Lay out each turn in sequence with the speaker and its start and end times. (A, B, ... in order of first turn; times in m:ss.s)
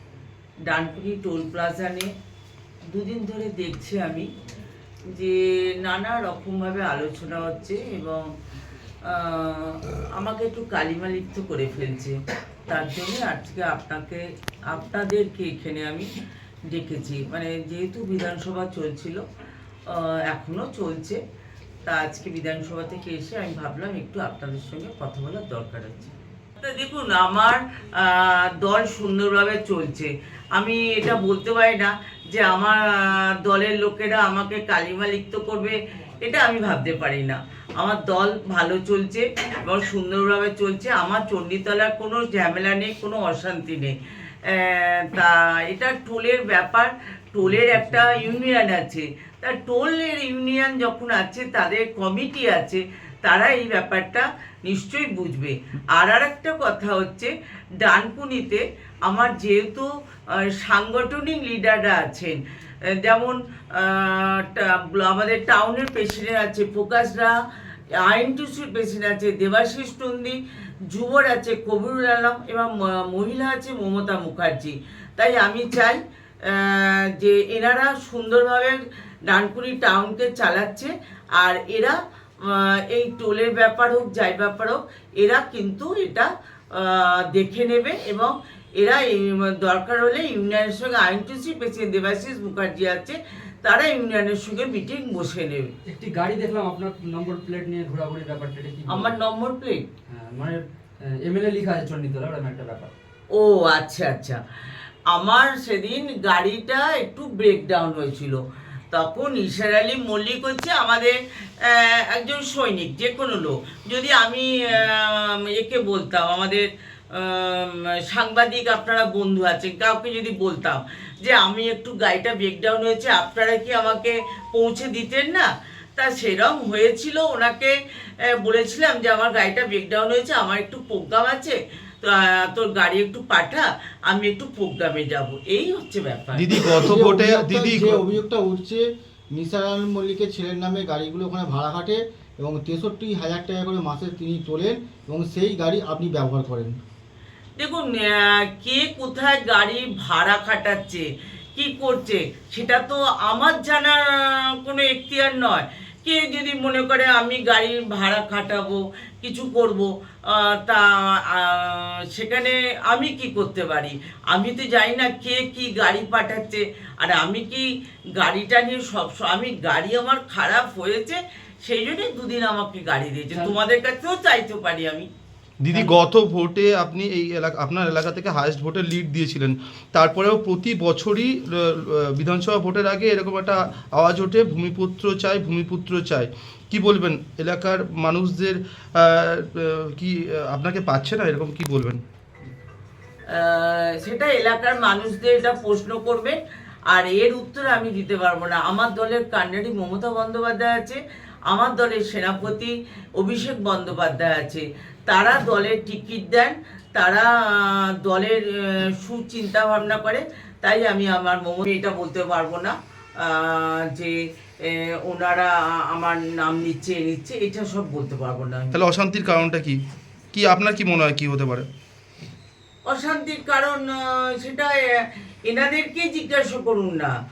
0:00.7-0:02.1 A
0:02.9-0:04.3 A
0:05.1-0:08.3 A
0:09.0-0:16.1 A
0:16.7-0:19.2 A
0:19.9-0:21.2 A
0:21.8-0:44.0 A
0:44.5-1:02.4 A
0:47.7-0:48.0 B
1:02.9-1:07.3 A
1:08.0-1:10.4 A
1:10.9-1:35.7 A
1:35.9-1:39.2 B
1:38.9-1:39.8 A
1:40.1-1:42.9 B
1:43.3-1:44.4 A
1:45.1-2:07.8 A
2:08.3-2:16.7 A
2:16.4-2:18.1 C
2:16.7-2:26.8 D
2:27.6-2:55.1 A
2:55.6-3:12.0 C
3:13.3-3:16.4 A
3:16.9-3:38.8 A
3:38.7-3:39.8 C
3:40.3-3:41.7 C
3:42.9-3:47.1 A